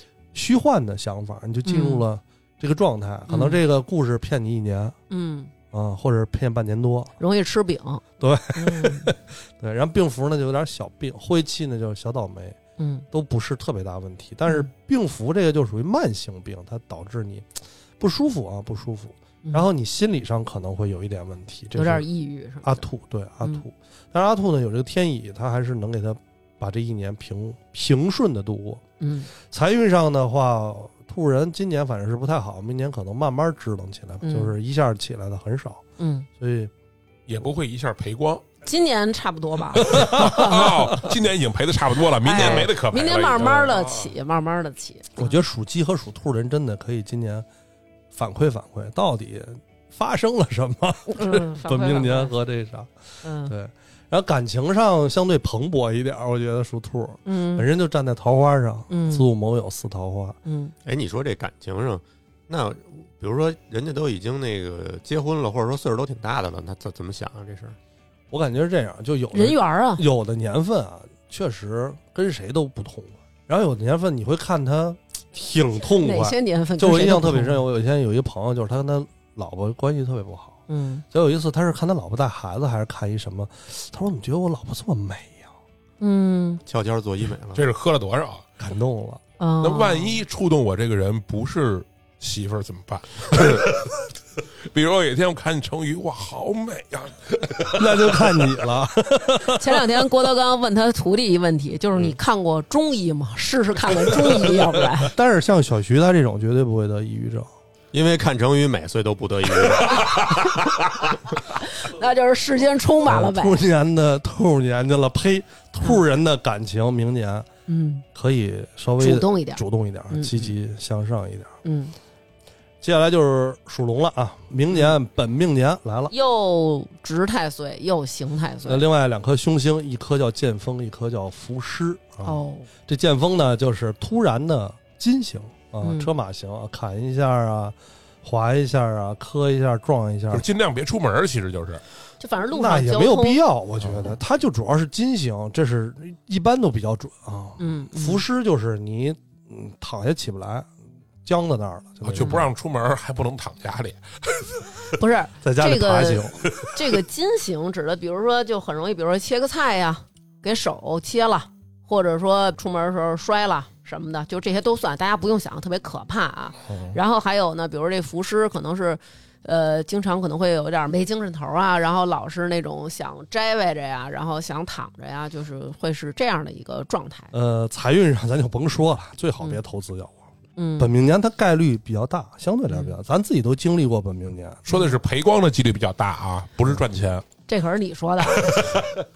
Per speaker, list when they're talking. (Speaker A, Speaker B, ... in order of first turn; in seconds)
Speaker A: 0.3-5.0, 5.7-7.2, 8.2-12.6, 13.1-22.1, 22.6-28.8, 29.4-35.8, 36.4-36.7, 39.8-41.0, 42.4-42.7, 45.2-47.5, 48.1-52.9, 53.5-60.4, 68.3-80.6, 81.1-85.5, 88.6-89.2, 97.7-99.6, 105.0-107.5, 113.0-117.5, 118.2-121.6, 122.8-126.1, 128.7-140.4, 142.5-150.7, 151.2-152.4, 155.4-156.5, 166.7-167.0, 177.3-180.2, 180.8-184.6
Speaker B: 1.6-2.0, 3.3-3.6, 5.1-5.5, 7.2-8.0, 8.6-9.1, 12.8-13.0, 21.8-22.8, 29.0-29.3, 34.2-34.5, 36.0-36.3, 38.6-40.9, 42.2-45.4, 51.1-52.4, 53.2-53.5, 57.2-57.7, 58.9-59.3, 60.5-60.7, 69.3-70.0, 76.0-77.6, 80.7-81.0, 86.0-86.6, 89.4-90.2, 99.5-105.1, 111.6-113.6, 117.7-118.0, 119.0-120.5, 121.6-122.0, 126.1-128.8, 132.2-132.7, 135.8-136.1, 142.2-143.4, 147.6-148.2, 152.2-152.5, 155.0-177.3, 180.6-180.9, 182.7-183.0, 184.7-185.0, 187.5-188.7
Speaker C: 37.3-38.4, 39.8-44.1, 87.5-88.5, 89.6-93.9, 94.6-98.5, 140.3-141.8, 152.0-154.8, 184.7-187.3, 188.4-188.9
Speaker D: 60.9-67.8, 86.7-87.6, 107.9-111.0